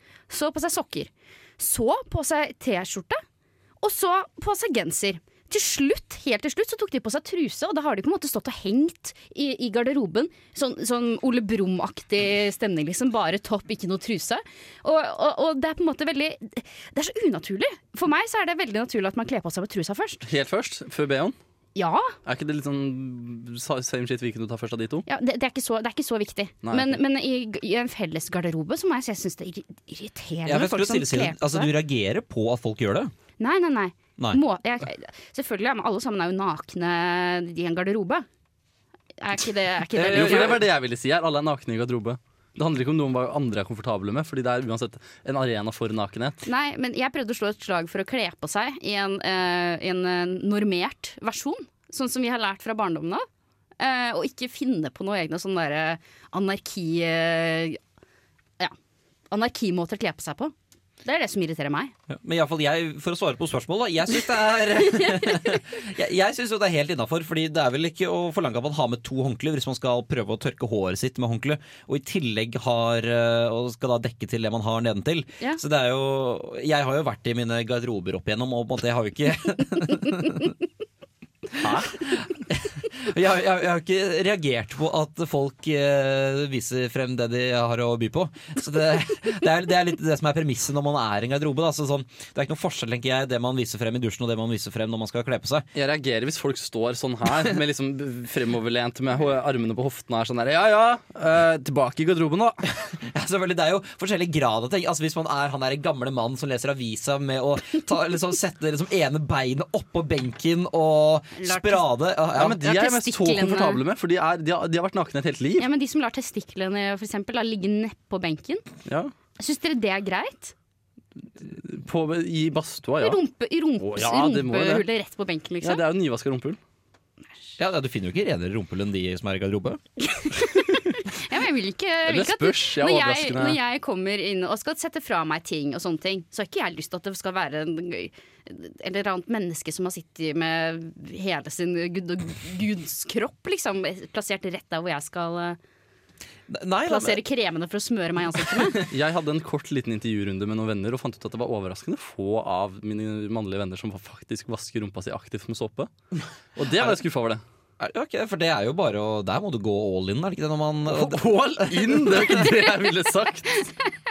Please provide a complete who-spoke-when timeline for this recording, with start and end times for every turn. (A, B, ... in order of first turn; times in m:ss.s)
0:00.3-0:03.2 A
0:03.8-0:20.2 A
0:20.2-0:21.3 B
0:21.8-0:22.2 A
0:22.2-0:25.0 B
0:25.1-0:31.7 A
0:26.6-0:27.0 B
0:30.4-0:33.1 C
0:33.4-0:38.2 A
0:39.2-0:40.6 A
0:40.0-0:40.6 C
0:40.0-0:46.4 B
0:46.4-0:53.2 A
0:53.8-0:57.8 A
0:59.3-1:01.9 A
1:02.1-1:20.5 C
1:04.8-1:05.6 A
1:21.6-1:35.6 C
1:35.7-1:42.6 B
1:42.9-1:52.6 C
1:51.4-1:51.9 A
1:52.3-1:55.7 B
1:52.6-1:53.8 A
1:55.6-1:58.6 A
1:58.8-1:59.1 B
1:59.4-2:00.5 A
2:01.5-2:03.2 B
2:03.0-2:05.8 A
2:03.8-2:04.8 B
2:05.6-2:06.6 B
2:07.6-2:09.8 C
2:10.2-2:25.6 A
2:12.0-2:13.6 B
2:26.5-2:27.2 C
2:26.9-2:28.9 A
2:28.8-2:35.9 B
2:36.6-2:37.4 B
2:37.8-2:42.5 C
2:40.9-2:43.6 B